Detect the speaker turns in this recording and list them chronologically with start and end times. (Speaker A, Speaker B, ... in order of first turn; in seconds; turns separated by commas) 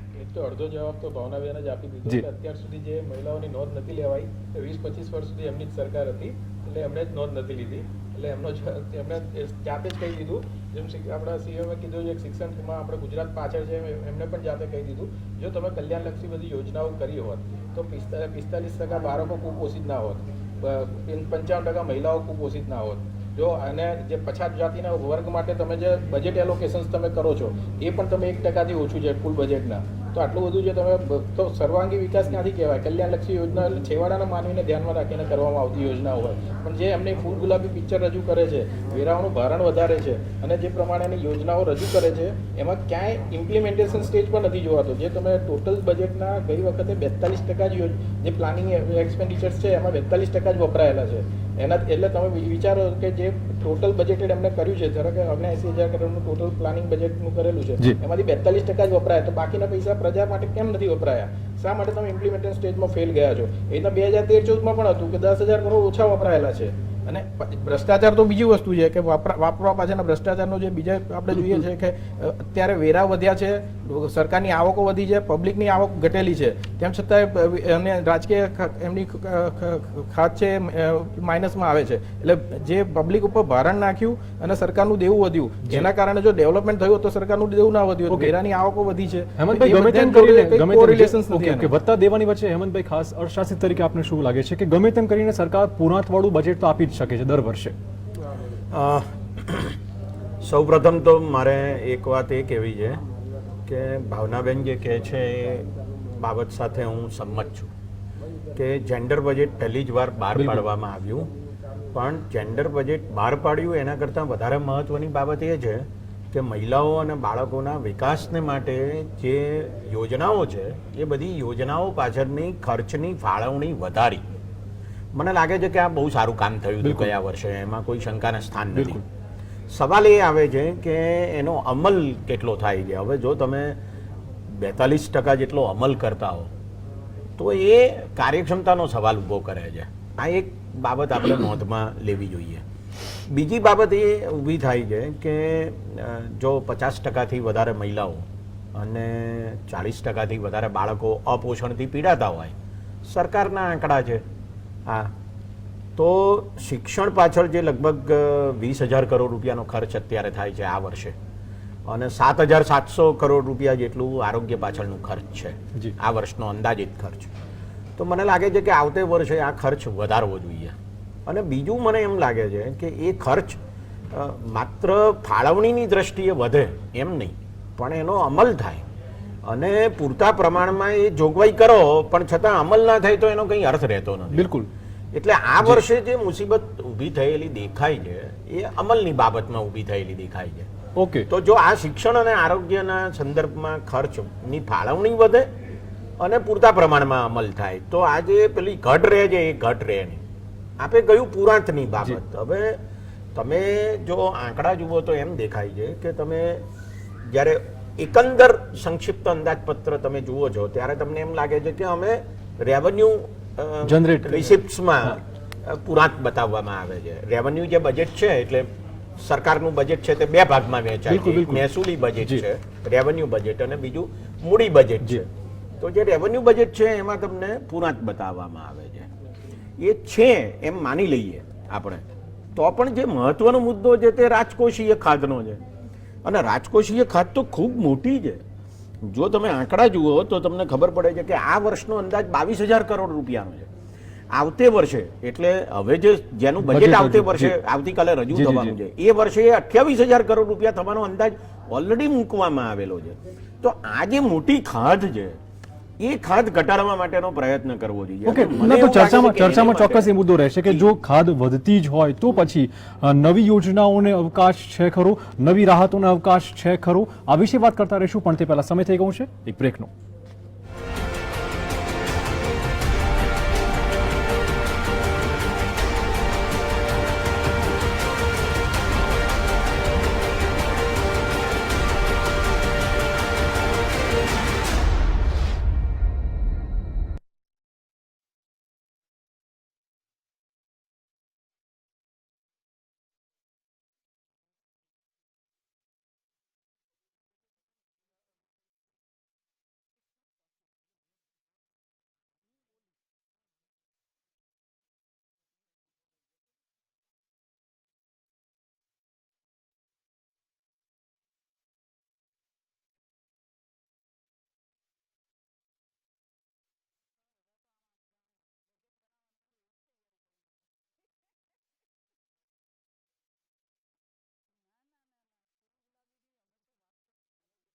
Speaker A: 0.1-91.7, Speaker B: 88.1-88.3, Speaker B: 89.4-97.7, Speaker C: 98.7-99.8, Speaker C: 100.4-103.0, Speaker C: 103.7-107.7, Speaker C: 108.5-111.3, Speaker B: 110.4-110.6, Speaker C: 111.9-124.3, Speaker C: 125.1-129.0, Speaker B: 126.8-127.1, Speaker B: 128.8-129.0, Speaker C: 129.7-133.8, Speaker C: 134.5-136.5, Speaker C: 137.4-142.6, Speaker C: 143.3-152.6, Speaker C: 153.1-154.2, Speaker C: 154.9-155.1, Speaker C: 155.9-161.2, Speaker C: 161.9-167.3, Speaker C: 168.0-178.8, Speaker C: 179.4-184.5, Speaker B: 184.3-184.7, Speaker C: 185.1-190.7, Speaker B: 190.9-191.3, Speaker C: 191.3-195.5, Speaker C: 196.2-200.2, Speaker C: 200.8-202.8, Speaker C: 203.3-206.7, Speaker C: 207.3-225.3, Speaker B: 213.8-215.2, Speaker B: 221.1-221.7, Speaker C: 225.8-229.1, Speaker C: 229.8-235.6, Speaker C: 236.2-238.4, Speaker C: 239.0-243.7, Speaker C: 244.3-255.4, Speaker B: 246.7-247.6, Speaker B: 248.3-248.7, Speaker C: 256.0-260.1, Speaker B: 258.3-269.9